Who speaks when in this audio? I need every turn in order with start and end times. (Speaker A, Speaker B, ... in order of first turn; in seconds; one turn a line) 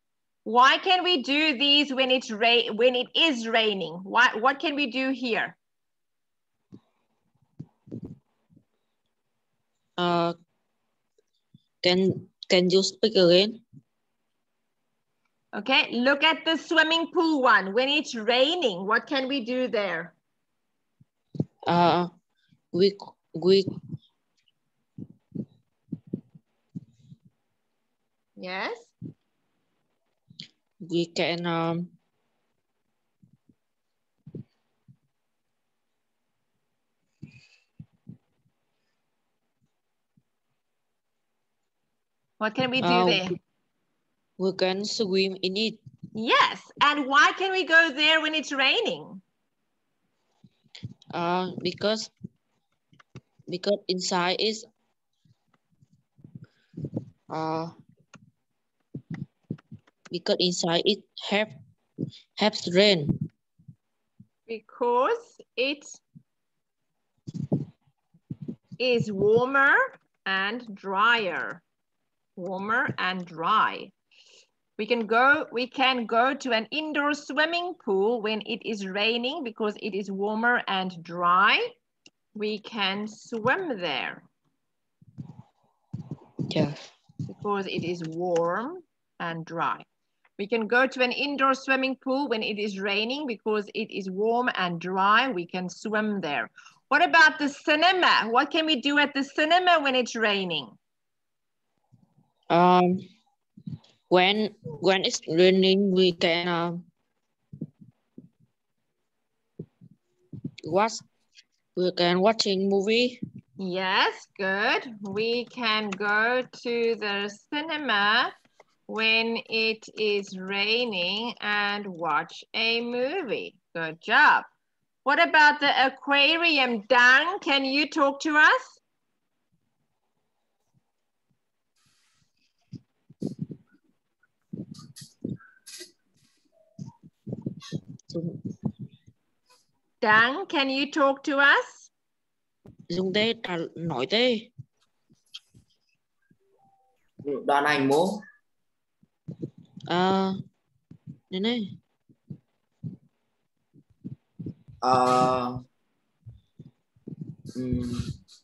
Speaker A: 0.5-5.6
Speaker B: 10.0-10.3
Speaker B: 11.8-13.6
Speaker A: 15.5-20.1
Speaker B: 21.7-22.1
Speaker B: 22.7-23.7
Speaker A: 28.4-28.9
Speaker B: 30.8-31.9
Speaker A: 42.4-43.4
Speaker B: 42.8-43.3
Speaker B: 44.4-45.8
Speaker A: 46.1-49.2
Speaker B: 51.1-52.1
Speaker B: 53.5-54.7
Speaker B: 57.3-57.7
Speaker B: 60.1-61.5
Speaker B: 62.4-63.2
Speaker A: 64.5-66.0
Speaker A: 68.8-71.6
Speaker A: 72.4-73.9
Speaker A: 74.8-81.7
Speaker A: 82.3-84.3
Speaker B: 86.5-86.8
Speaker A: 87.3-89.9
Speaker A: 90.4-100.8
Speaker B: 102.5-103.0
Speaker B: 104.1-106.9
Speaker B: 110.6-111.0
Speaker B: 111.8-113.2
Speaker A: 113.6-118.3
Speaker A: 118.9-124.5
Speaker A: 125.0-128.8
Speaker B: 138.1-138.4
Speaker A: 140.0-141.9
Speaker B: 142.9-144.5
Speaker C: 147.2-148.2
Speaker B: 149.9-150.4
Speaker B: 151.3-151.7
Speaker C: 154.8-155.6
Speaker C: 157.6-158.1